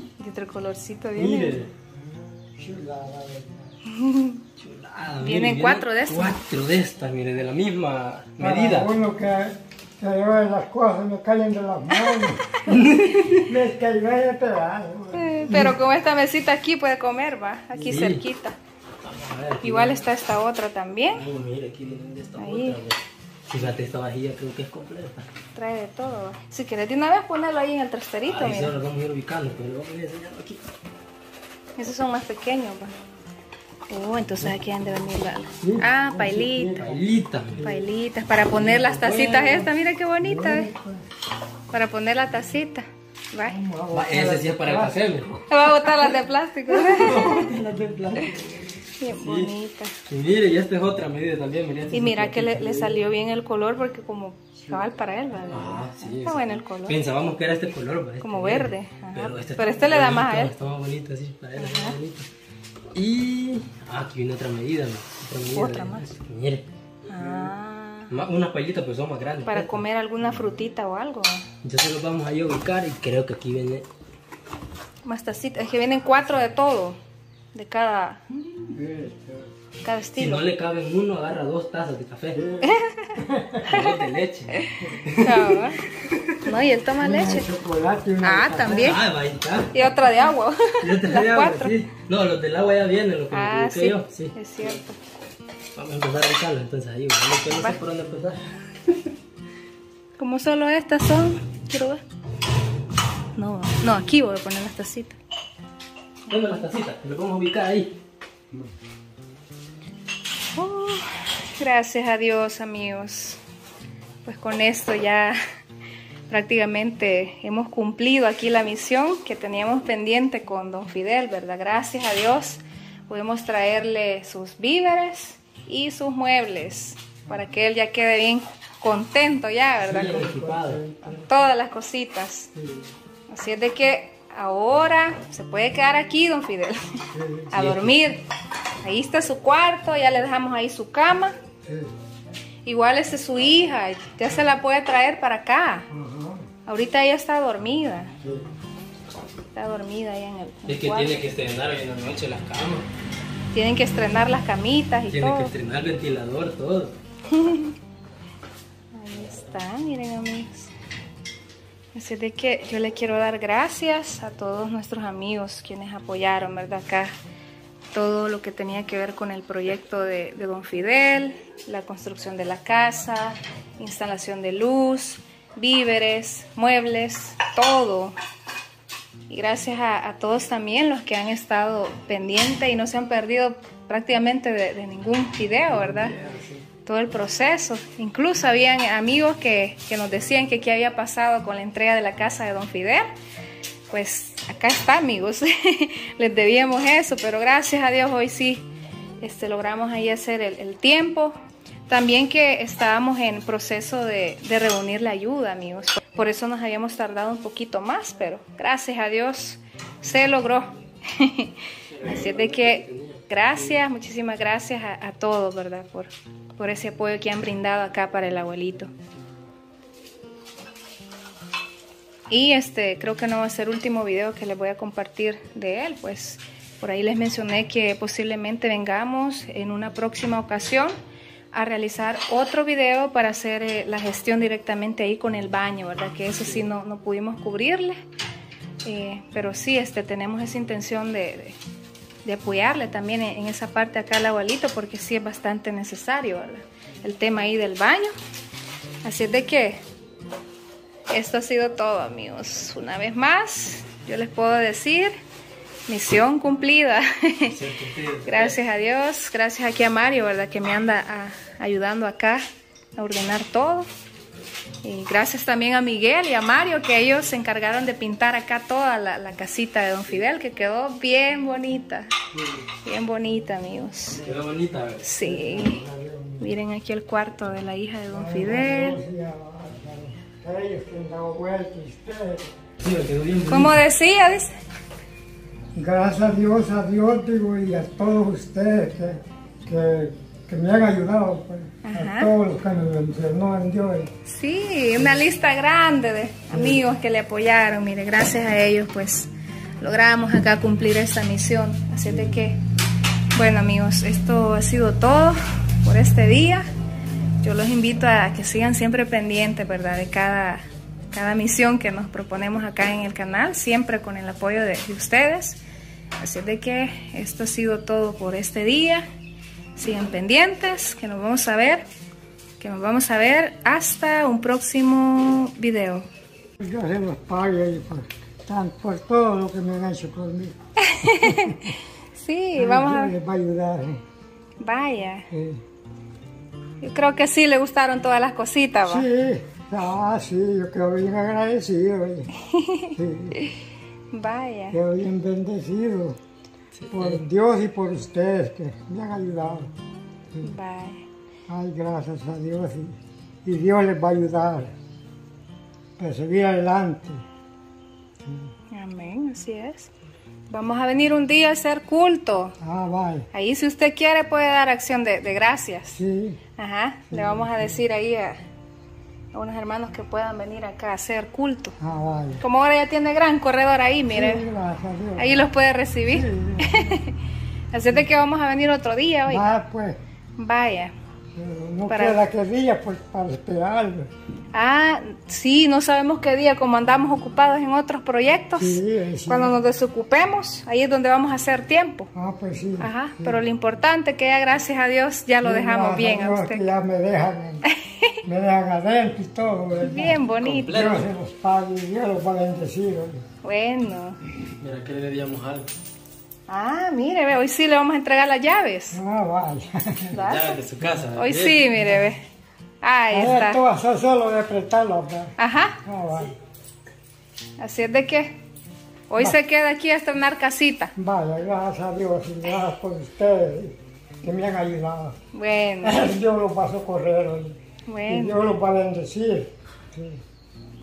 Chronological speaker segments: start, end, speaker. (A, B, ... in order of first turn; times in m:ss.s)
0:00.2-0:01.6 A
0:01.1-0:01.7 B
0:01.9-0:03.7 C
0:03.9-0:04.4 A
0:04.6-0:08.9 B
0:05.2-0:06.4 A
0:08.4-0:12.8 C
0:12.7-0:13.5 B
0:13.3-0:15.7 C
0:15.1-0:18.6 A
0:15.5-0:15.8 B
0:17.8-0:18.2 B
0:19.0-0:20.1 B
0:19.6-0:21.2 A
0:21.1-0:25.3 B
0:22.4-0:22.8 A
0:25.5-0:28.8 A
0:28.3-0:30.6 B
0:31.8-0:33.0 A
0:33.9-0:36.8 A
0:35.6-0:37.9 C
0:36.8-0:37.6 B
0:37.6-0:40.7 A
0:38.5-0:39.7 B
0:40.2-0:41.0 C
0:41.7-0:43.6 A
0:43.4-0:45.9 C
0:43.9-0:45.3 B
0:45.5-0:47.5 A
0:46.8-0:48.8 C
0:46.9-0:47.6 B
0:49.0-0:49.9 A
0:49.1-0:49.6 B
0:50.1-0:52.8 B
0:51.9-0:57.0 A
0:52.6-0:53.0 C
0:54.6-0:54.9 C
0:55.5-1:02.3 B
0:58.2-1:00.5 A
1:01.6-1:02.0 A
1:02.9-1:06.7 B
1:05.5-1:06.1 A
1:07.1-1:08.2 A
1:07.2-1:07.5 C
1:08.1-1:09.8 B
1:09.4-1:11.4 A
1:11.6-1:13.8 B
1:15.0-1:17.0 A
1:17.5-1:18.2 A
1:18.7-1:19.5 C
1:19.8-1:20.5 A
1:20.2-1:22.4 B
1:22.3-1:23.8 C
1:22.6-1:23.9 A
1:23.6-1:26.5 B
1:24.5-1:25.8 A
1:26.4-1:27.5 A
1:27.0-1:29.0 C
1:28.2-1:29.0 A
1:28.8-1:30.1 B
1:29.7-1:31.8 A
1:30.8-1:34.8 B
1:33.3-1:35.0 A
1:35.7-1:39.1 B
1:37.5-1:37.8 A
1:40.2-1:42.0 A
1:43.3-1:45.2 A
1:46.3-1:46.6 A
1:46.3-1:48.0 B
1:50.5-1:53.4 A
1:54.2-1:55.4 A
1:56.3-2:10.3 A
2:07.2-2:07.5 C
2:09.8-2:10.8 B
2:09.9-2:11.3 C
2:11.1-2:12.5 A
2:12.5-2:12.9 C
2:13.3-2:17.0 A
2:17.1-2:17.5 C
2:17.5-2:18.2 A
2:17.5-2:18.0 B
2:18.8-2:21.4 A
2:21.6-2:21.9 C
2:22.6-2:25.9 A
2:25.9-2:26.5 C
2:26.7-2:28.1 A
2:28.2-2:28.5 C
2:29.5-2:31.2 A
2:30.7-2:32.9 B
2:33.5-2:35.5 A
2:35.1-2:37.0 B
2:37.3-2:37.7 A
2:38.9-2:40.7 A
2:41.9-2:47.2 A
2:47.9-2:58.2 A
2:59.3-3:06.2 A
3:05.7-3:06.7 B
3:06.8-3:13.1 A
3:13.9-3:18.6 A
3:19.2-3:21.4 A
3:21.9-3:38.9 A
3:31.8-3:33.7 B
3:42.3-3:50.9 A
3:51.5-3:58.0 A
3:56.4-3:56.7 B
3:58.8-4:01.6 A
4:02.2-4:08.2 A
4:09.0-4:09.8 A
4:11.1-4:15.2 A
4:15.9-4:17.6 A
4:17.5-4:18.6 B
4:18.2-4:23.9 A
4:24.8-4:32.1 A
4:32.3-4:32.7 C
4:32.8-4:34.2 A
4:34.1-4:35.2 B
4:35.0-4:35.8 A
4:35.2-4:36.5 C
4:36.4-4:39.0 A
4:38.1-4:42.6 C
4:42.8-4:43.8 B
4:43.5-4:44.5 A
4:45.7-4:54.1 C
4:51.8-4:52.3 A
4:54.2-4:59.3 A
4:56.5-4:56.8 C
4:59.8-5:02.6 A
5:02.1-5:02.4 C
5:03.3-5:06.7 A
5:07.4-5:15.6 A
5:16.2-5:19.0 A
5:19.8-5:21.8 A
5:22.6-5:26.1 A
5:26.6-5:30.6 C
5:30.8-5:33.1 A
5:31.2-5:31.8 C
5:32.6-5:34.0 C
5:34.6-5:35.3 A
5:35.3-5:35.6 C
5:36.8-5:39.0 A
5:38.8-5:42.3 C
5:42.5-5:43.5 A
5:42.9-5:43.4 C
5:44.1-5:44.8 A
5:44.7-5:46.2 C
5:46.7-5:47.2 B
5:46.9-5:49.7 C
5:50.4-5:51.0 A
5:51.5-5:54.7 C
5:56.0-5:57.2 C
5:58.2-5:58.5 C
5:58.7-5:59.9 A
6:00.5-6:02.5 A
6:02.6-6:03.3 C
6:03.3-6:06.0 A
6:05.9-6:06.4 C
6:06.6-6:08.4 A
6:07.1-6:07.8 C
6:09.3-6:11.8 A
6:11.8-6:12.4 C
6:12.4-6:14.5 A
6:14.1-6:15.5 C
6:15.2-6:17.2 A
6:16.1-6:17.0 C
6:17.7-6:19.5 A
6:19.3-6:20.0 C
6:20.4-6:20.9 A
6:21.3-6:24.1 C
6:21.9-6:22.2 A
6:24.5-6:32.1 A
6:28.6-6:29.5 C
6:32.1-6:33.4 C
6:32.8-6:36.7 A
6:35.4-6:37.6 C
6:37.7-6:38.2 A
6:38.2-6:43.2 C
6:39.8-6:40.8 A
6:40.4-6:41.0 B
6:43.4-6:44.2 A
6:44.6-6:45.7 B
6:46.5-6:49.0 A
6:48.9-6:50.2 C
6:50.1-6:50.6 A
6:50.2-6:51.8 B
6:51.1-6:52.2 A
6:52.8-6:53.6 A
6:53.1-6:56.3 C
6:55.4-6:55.8 A
6:57.6-6:58.4 A
6:59.1-7:00.9 A
7:01.0-7:05.2 C
7:05.3-7:06.1 A
7:05.8-7:10.2 C
7:07.9-7:08.4 A